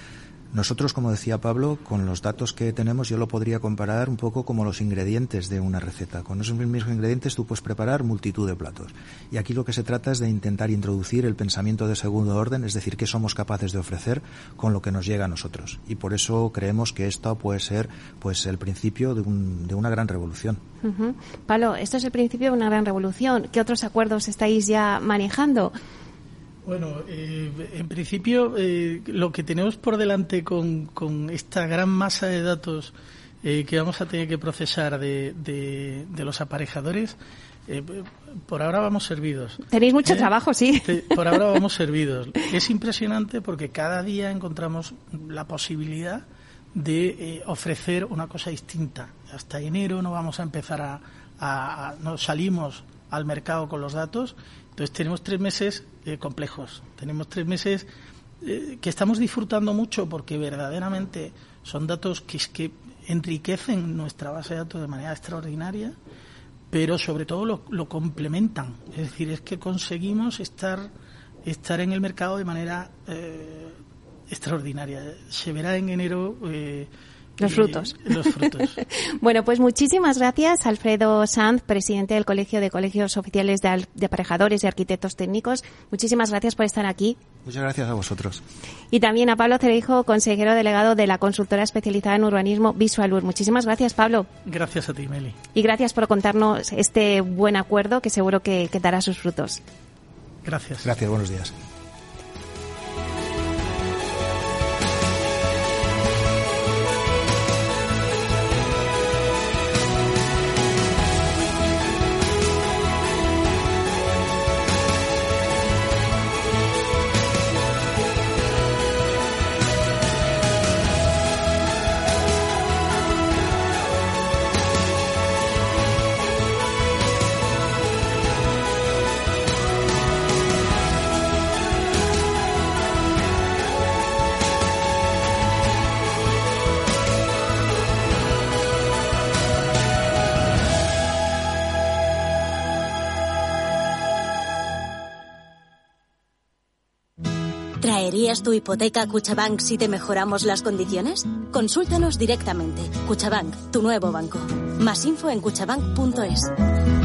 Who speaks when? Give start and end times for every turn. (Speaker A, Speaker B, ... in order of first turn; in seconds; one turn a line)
Speaker A: 0.5-20.6
Speaker B: 20.8-25.7
Speaker C: 26.6-37.1
Speaker C: 37.7-40.3
Speaker B: 39.7-41.4
Speaker C: 40.8-57.9
Speaker C: 58.4-65.9
Speaker C: 66.7-70.9
Speaker C: 71.4-73.8
Speaker C: 74.3-78.8
Speaker B: 77.4-87.2
Speaker A: 87.4-88.4
Speaker B: 88.9-94.3
Speaker C: 94.5-95.4
Speaker B: 95.5-99.6
Speaker C: 100.4-100.9
Speaker A: 100.8-101.5
Speaker D: 147.8-156.5